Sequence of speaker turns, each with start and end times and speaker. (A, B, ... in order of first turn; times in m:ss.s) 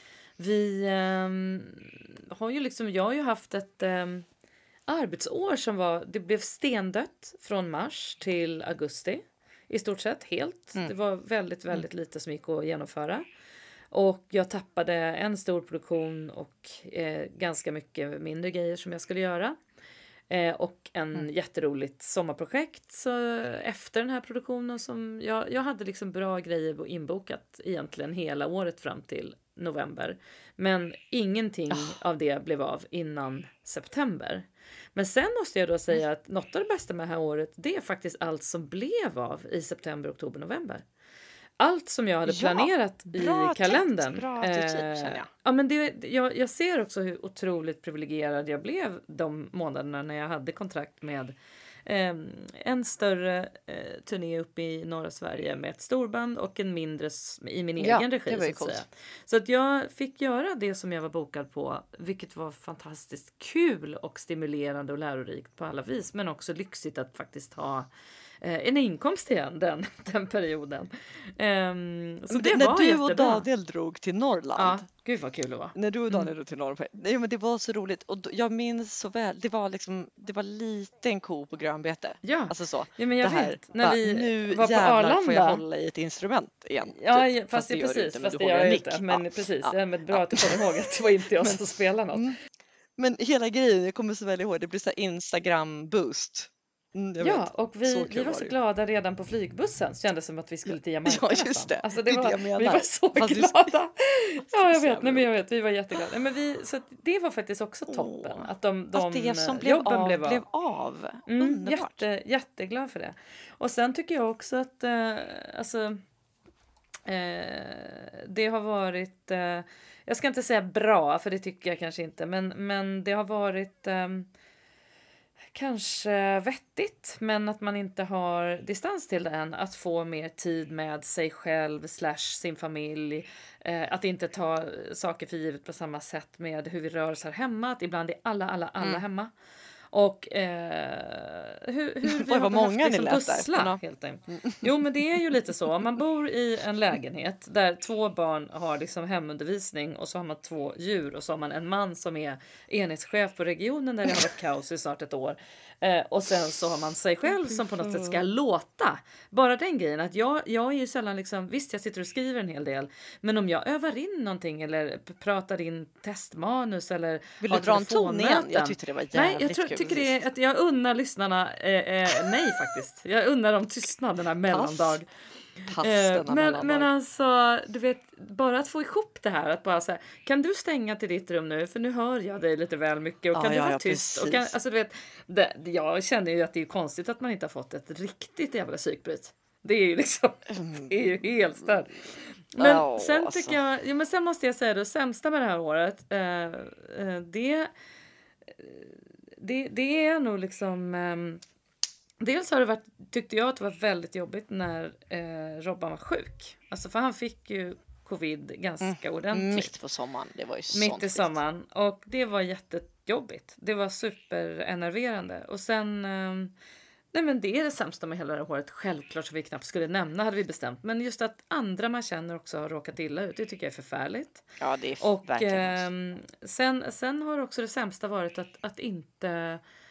0:00.4-0:04.2 A
0:04.9-0:13.2 A
0:13.9-0:19.6 A
0:20.3-0:40.8 A
0:41.6-1:07.9 A
0:42.3-0:45.3 B
0:57.8-0:58.8 B
1:08.4-1:13.4 A
1:12.3-1:14.8 B
1:14.6-1:16.3 A
1:15.7-1:30.6 B
1:22.2-1:25.6 A
1:26.9-1:32.2 A
1:33.0-1:38.5 B
1:37.2-1:50.4 A
1:40.7-1:43.7 B
1:44.5-1:45.3 B
1:47.9-1:52.0 B
1:51.3-1:56.0 A
1:57.0-2:04.3 A
2:05.5-2:19.3 A
2:19.9-2:55.1 A
2:22.0-2:23.8 B
2:24.3-2:24.8 B
2:37.5-2:38.2 B
2:47.4-2:50.2 B
2:54.5-2:55.0 B
2:55.6-3:17.7 A
2:55.6-2:56.9 B
3:03.3-3:04.5 B
3:10.5-3:11.0 B
3:12.6-3:13.6 B
3:18.5-3:21.4 A
3:22.2-3:29.8 A
3:28.8-3:31.4 B
3:30.7-3:36.5 A
3:37.1-3:44.4 A
3:44.6-3:45.8 B
3:45.0-3:49.6 A